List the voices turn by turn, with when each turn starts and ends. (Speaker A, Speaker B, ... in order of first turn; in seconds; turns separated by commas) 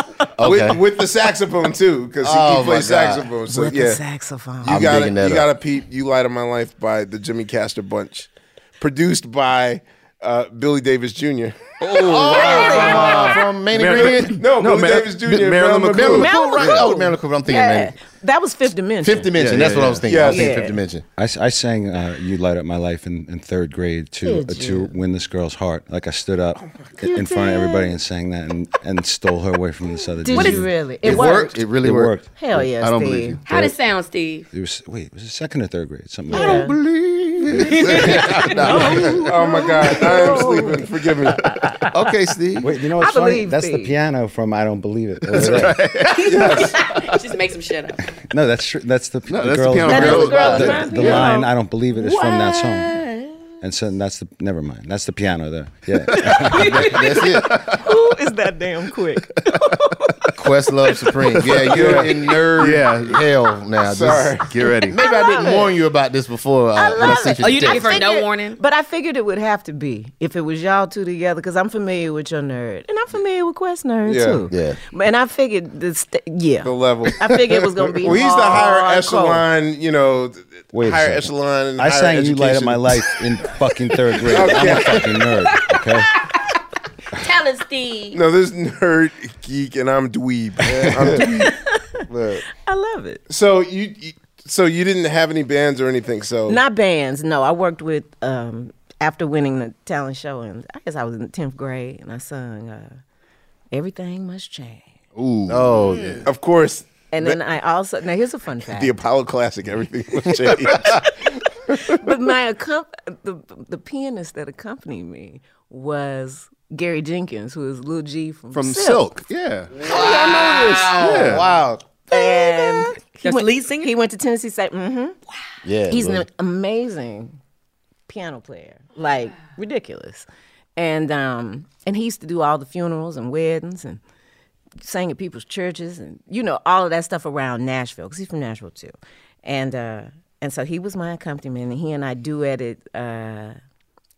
Speaker A: 0.4-0.8, Speaker B: 0.4-4.0, Speaker A: 2.2-3.3, Speaker C: 3.5-4.8, Speaker B: 4.6-12.8, Speaker A: 4.7-5.5, Speaker D: 11.8-16.9, Speaker A: 11.9-14.5, Speaker C: 12.3-13.4, Speaker B: 13.9-16.3, Speaker A: 15.8-17.9, Speaker C: 16.1-19.4, Speaker A: 19.0-21.1, Speaker D: 19.3-20.1, Speaker B: 20.0-20.6, Speaker C: 20.2-20.8, Speaker E: 21.1-32.3, Speaker C: 24.2-24.9, Speaker C: 27.0-27.9, Speaker C: 30.2-31.6, Speaker F: 30.3-30.6, Speaker A: 31.0-32.2, Speaker C: 32.4-33.4, Speaker D: 32.6-33.4, Speaker F: 33.5-34.5, Speaker E: 33.5-33.7, Speaker E: 34.5-36.7, Speaker C: 36.3-36.8, Speaker A: 36.4-39.3, Speaker F: 37.5-39.0, Speaker C: 37.9-41.9, Speaker B: 39.2-41.6, Speaker A: 41.9-42.7, Speaker E: 42.6-45.8, Speaker C: 43.0-43.9, Speaker D: 45.3-45.9, Speaker A: 45.3-46.2, Speaker F: 46.1-48.1, Speaker B: 46.2-46.7, Speaker E: 48.2-53.0, Speaker D: 49.3-51.3, Speaker C: 49.8-53.4, Speaker A: 50.1-51.2, Speaker E: 53.6-56.9, Speaker C: 56.1-61.1, Speaker F: 56.5-57.4, Speaker A: 56.6-57.6, Speaker A: 60.4-68.0, Speaker D: 61.4-63.3, Speaker B: 61.6-62.4, Speaker B: 63.8-64.5, Speaker D: 64.5-65.0, Speaker C: 65.0-65.8, Speaker C: 66.7-79.4, Speaker F: 67.1-68.6, Speaker B: 74.1-74.4, Speaker A: 74.5-74.8, Speaker B: 76.6-83.1, Speaker E: 80.7-86.1, Speaker B: 84.3-85.2, Speaker F: 84.5-86.4, Speaker F: 87.1-88.2, Speaker B: 88.1-91.5, Speaker A: 90.7-91.5, Speaker C: 91.1-93.2, Speaker A: 92.1-92.4, Speaker B: 93.3-96.6, Speaker C: 96.5-103.0, Speaker C: 103.7-104.9, Speaker D: 105.2-106.2, Speaker A: 105.2-106.3, Speaker B: 106.2-107.4, Speaker C: 107.1-108.9, Speaker B: 108.7-111.1, Speaker C: 111.7-119.1, Speaker B: 111.7-112.0, Speaker D: 118.5-119.8, Speaker A: 119.8-121.9, Speaker B: 119.9-120.9, Speaker D: 120.5-121.4, Speaker C: 122.1-125.2, Speaker F: 123.2-123.9, Speaker A: 125.6-126.3, Speaker C: 125.9-127.4, Speaker C: 128.1-130.3, Speaker C: 130.8-134.0, Speaker C: 134.8-143.6